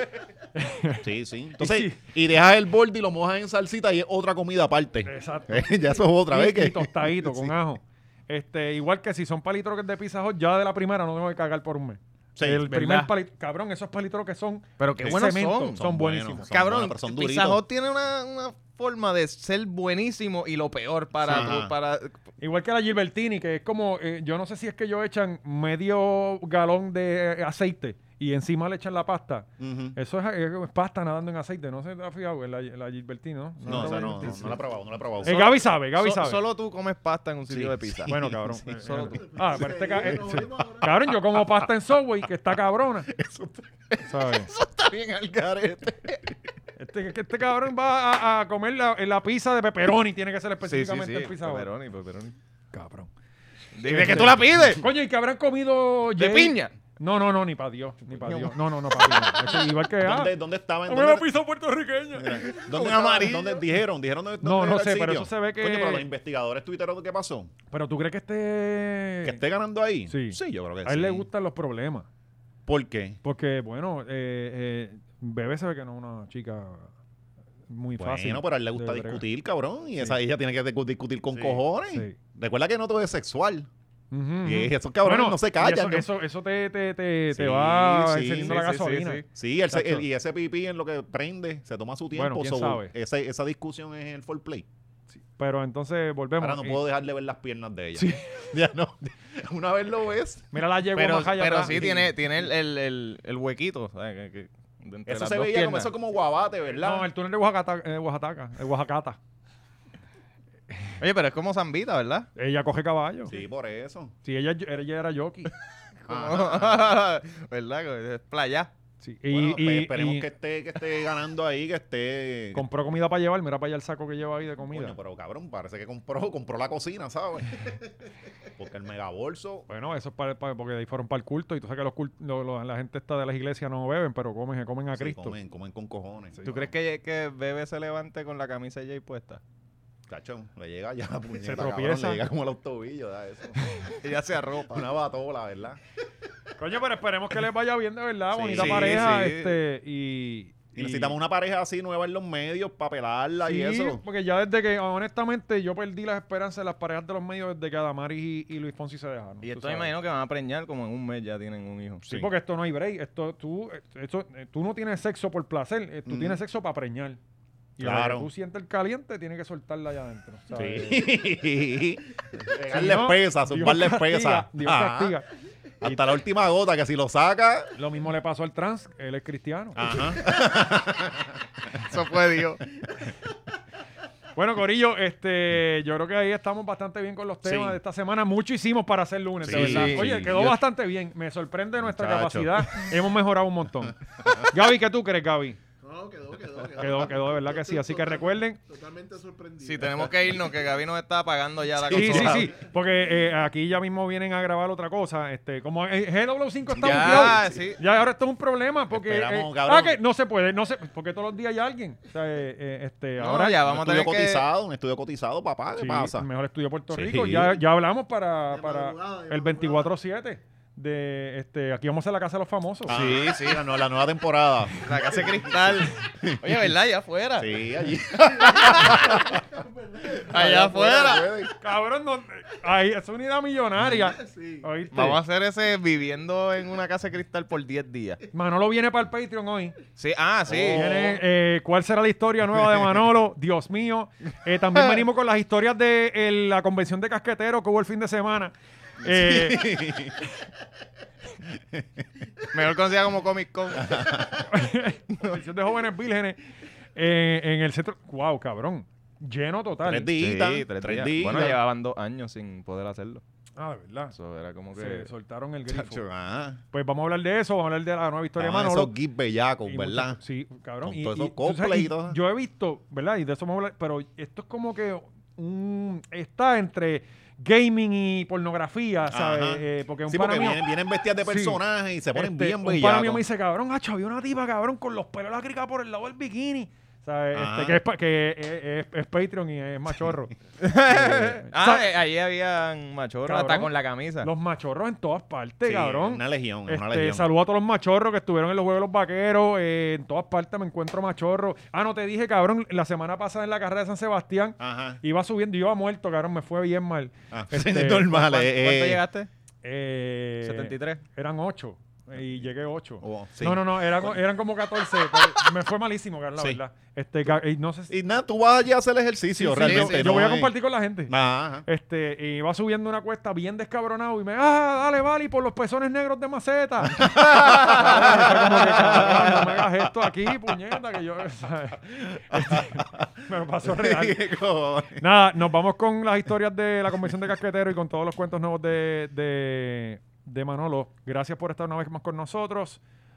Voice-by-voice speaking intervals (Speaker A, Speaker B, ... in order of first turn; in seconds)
Speaker A: 0.5-1.1, 1.6-2.0, 5.0-16.5, 22.4-34.6, 35.2-36.4, 38.1-43.1, 44.0-44.5, 46.8-51.7, 52.7-53.1, 53.8-60.3, 60.9-62.4, 64.4-66.0, 67.7-69.4, 70.1-72.1, 73.2-76.9, 77.7-79.2, 81.9-82.2, 84.1-90.0, 92.1-92.9, 95.3-96.8, 98.0-98.5, 100.5-102.1, 106.8-109.2, 112.3-113.3, 114.2-115.5, 119.0-120.3, 122.5-125.0, 129.7-135.3, 136.3-136.7, 141.4-142.2, 146.6-151.1, 153.4-159.9, 162.1-167.2, 167.8-171.1, 172.7-175.3, 177.8-179.9, 184.3-195.6, 196.8-198.6, 201.9-213.6, 215.7-223.0, 231.6-235.2, 238.3-239.8, 240.5-249.9, 254.5-256.4, 256.9-260.1, 263.6-264.1, 264.7-266.0, 266.7-268.9, 269.7-280.6, 281.2-281.6, 282.1-290.3, 290.9-291.9, 293.2-293.7, 294.2-308.2, 309.6-317.9, 319.3-334.2, 335.0-342.8
Speaker B: 1.0-7.5, 12.3-12.7, 15.0-17.6, 21.2-21.7, 29.6-30.0, 33.6-35.5, 37.5-38.8, 43.1-44.0, 45.3-46.4, 60.0-61.3, 62.1-67.5, 69.2-71.3, 72.7-73.2, 78.0-83.7, 84.4-86.1, 87.3-88.6, 89.3-94.7, 96.4-100.5, 101.6-102.1, 105.1-107.1, 113.3-114.1, 116.1-116.9, 119.3-122.7, 124.7-127.8, 128.6-129.7, 134.9-136.4, 140.1-143.6, 144.7-145.8, 148.3-149.2, 150.7-154.0, 166.1-166.4, 167.8-168.3, 170.5-175.2, 175.8-177.7, 179.7-181.4, 187.4-187.8, 189.4-190.5, 191.8-192.9, 194.2-194.5, 201.8-202.6, 206.8-207.6, 208.9-209.9, 213.6-216.3, 216.9-217.6, 222.9-226.5, 227.4-229.4, 230.2-231.5, 249.0-250.3, 251.5-252.5, 253.7-254.6, 259.8-261.6, 265.7-266.6, 268.4-270.2, 270.8-272.2, 279.1-283.2, 287.3-287.8, 295.6-297.3, 304.6-305.0, 307.3-309.0, 313.0-314.2, 317.9-320.6, 321.1-321.7, 326.8-330.6, 332.3-333.1, 333.6-335.0
Speaker C: 12.7-13.1, 14.8-15.8, 16.5-22.1, 33.7-34.4, 35.2-38.1, 38.8-39.4, 44.5-45.6, 50.6-52.4, 53.7-54.8, 56.1-56.7, 58.1-59.2, 62.3-63.7, 88.4-89.2, 100.9-105.9, 111.0-112.3, 116.1-118.7, 136.4-139.4, 143.9-144.8, 148.5-149.6, 159.4-162.0, 181.8-182.6, 189.5-190.5, 199.6-202.5, 206.8-207.8, 213.2-214.4, 222.9-223.8, 224.8-227.6, 228.5-229.2, 230.3-231.3, 234.9-238.2, 240.0-241.2, 252.5-254.3, 260.2-263.2, 264.1-265.1, 290.6-294.3, 308.0-309.3, 310.4-311.0, 319.5-320.3, 327.3-329.2
Speaker D: 38.9-41.1, 195.8-200.3, 218.5-219.9, 228.3-231.0, 233.9-234.7